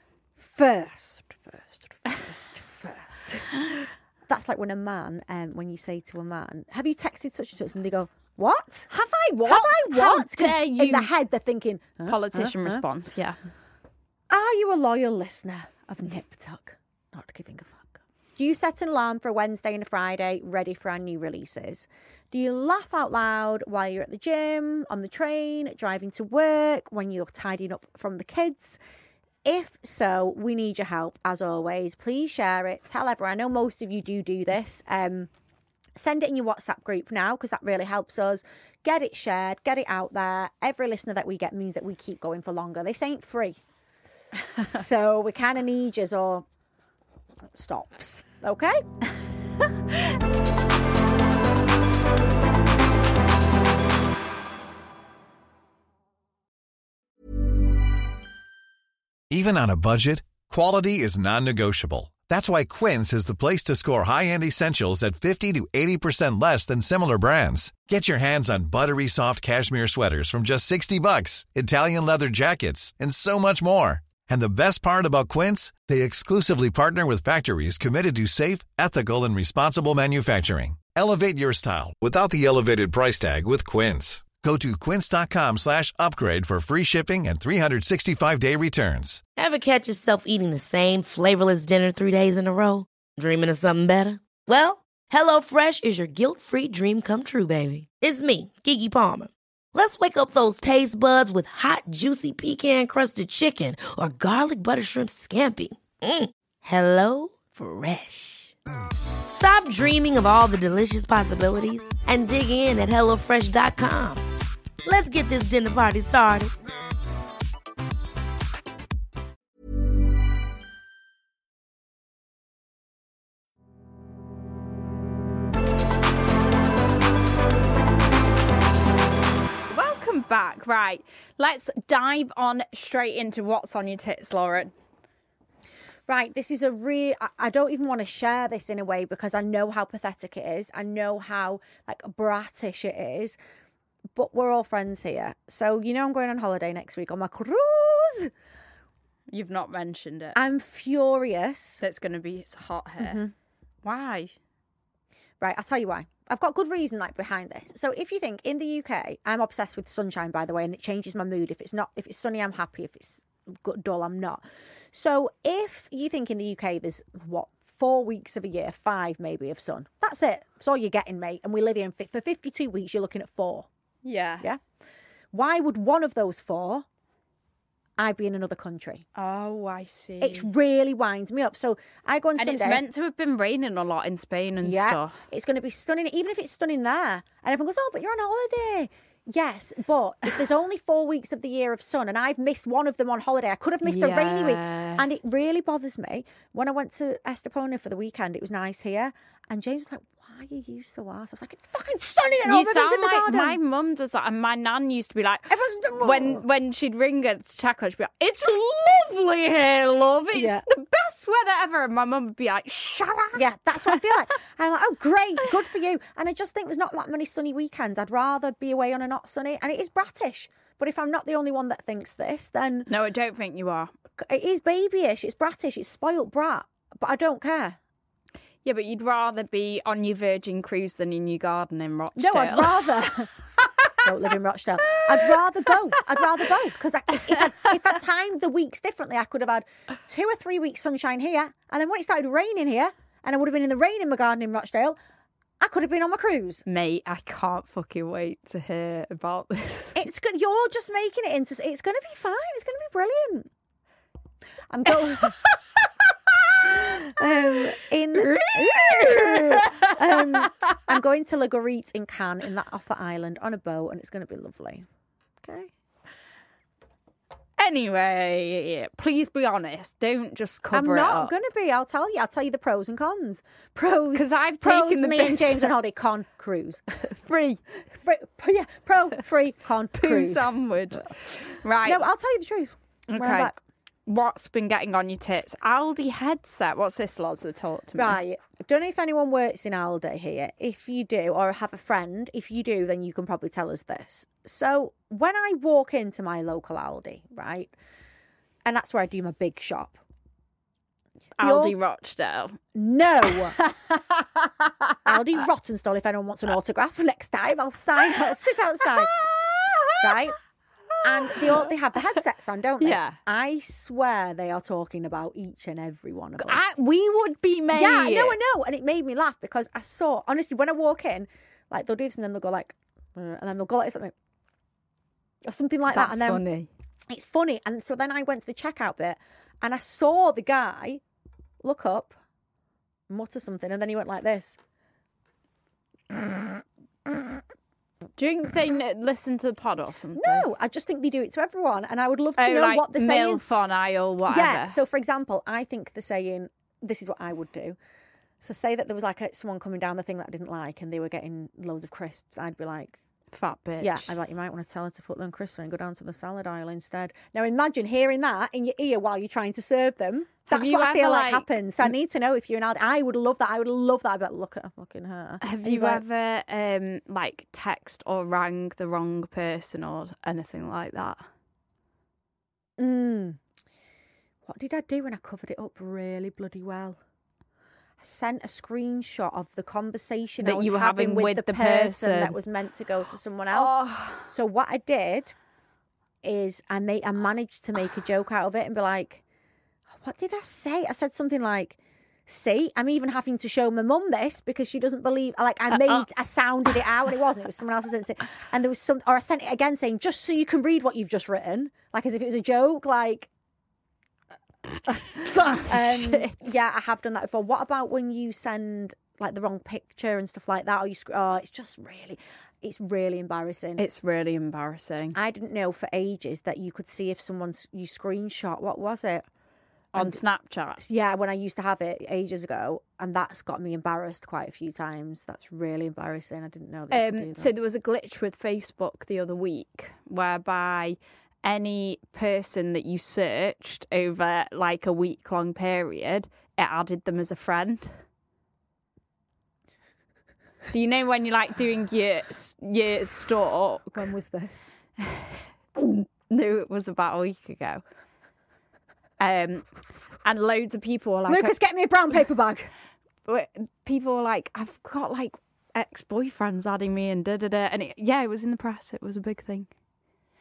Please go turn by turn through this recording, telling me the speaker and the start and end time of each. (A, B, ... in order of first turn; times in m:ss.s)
0:00.4-0:08.9 A
0:08.9-0:11.1 B
0:09.5-0:12.8 A
0:12.1-0:13.4 B
0:14.3-0:28.8 A
0:29.4-0:35.3 A
0:36.0-0:43.6 A
0:44.6-0:46.5 A
0:47.5-0:48.8 A
0:59.3-1:29.2 C
1:29.4-1:48.6 D
1:49.3-1:54.2 D
1:54.8-1:56.5 D
2:09.7-2:14.7 B
2:16.1-2:23.4 A
2:24.1-2:28.3 A
2:29.3-2:30.4 B
2:30.4-2:31.8 A
2:31.8-2:33.2 B
2:33.0-2:33.3 A
2:33.8-2:34.3 B
2:35.4-2:44.4 A
2:44.9-2:53.7 A
2:54.0-2:54.5 B
2:55.3-2:56.9 A
2:58.0-2:59.0 A
2:59.2-3:00.5 B
3:00.2-3:02.8 A
3:02.4-3:05.2 B
3:04.6-3:23.6 A
3:13.8-3:15.1 B
3:22.4-3:34.0 B
3:25.5-3:26.4 A
3:30.3-3:30.6 A
3:33.3-3:42.9 A
3:42.9-3:43.9 B
3:44.2-3:47.8 A
3:48.6-3:53.0 B
3:52.2-3:53.3 A
3:54.0-4:05.0 A
4:05.6-4:06.6 A
4:06.7-4:10.0 B
4:10.0-4:13.5 A
4:14.7-4:15.4 A
4:16.6-4:24.9 A
4:18.2-4:20.8 B
4:25.4-4:25.7 A
4:27.6-4:31.3 B
4:30.7-4:37.0 A
4:34.1-4:35.7 B
4:37.0-4:37.6 B
4:37.9-4:40.5 A
4:40.0-4:42.1 B
4:41.8-4:43.6 A
4:43.1-4:43.6 B
4:44.1-4:48.2 B
4:48.0-4:57.7 A
4:58.6-5:00.0 A
5:01.4-5:02.6 B
5:01.4-5:01.8 A
5:02.8-5:03.6 A
5:03.3-5:04.0 B
5:04.7-5:05.2 B
5:05.0-5:09.1 A
5:08.8-5:10.3 B
5:10.0-5:10.4 A
5:10.9-5:11.7 B
5:11.0-5:16.7 A
5:12.8-5:13.2 B
5:16.4-5:18.4 B
5:17.7-5:24.1 A
5:25.4-5:26.4 A
5:25.9-5:26.7 B
5:27.1-5:31.0 A
5:31.6-5:32.2 A
5:33.1-5:34.6 A
5:38.2-5:40.5 B
5:40.2-5:43.4 A
5:42.4-5:44.8 B
5:44.3-5:47.8 A
5:48.4-5:53.0 A
5:53.3-5:54.1 B
5:53.8-6:06.0 A
6:00.5-6:01.9 B
6:05.4-6:11.2 B
6:12.8-6:13.4 A
6:14.4-6:17.0 A
6:18.0-6:23.8 A
6:20.4-6:22.4 B
6:23.5-6:24.3 B
6:24.3-6:25.3 A
6:26.2-6:29.2 A
6:29.9-6:43.3 A
6:44.9-6:53.9 A
6:45.1-6:46.5 B
6:53.8-6:55.2 B
6:55.1-6:59.3 A
6:59.9-7:00.8 B
7:00.0-7:00.2 A
7:00.8-7:07.5 A
7:06.9-7:17.9 B
7:20.7-7:24.0 B
7:23.9-7:24.7 A
7:25.0-7:27.8 B
7:29.2-7:29.7 B
7:30.2-7:31.6 B
7:31.3-7:32.7 A
7:33.3-7:39.7 B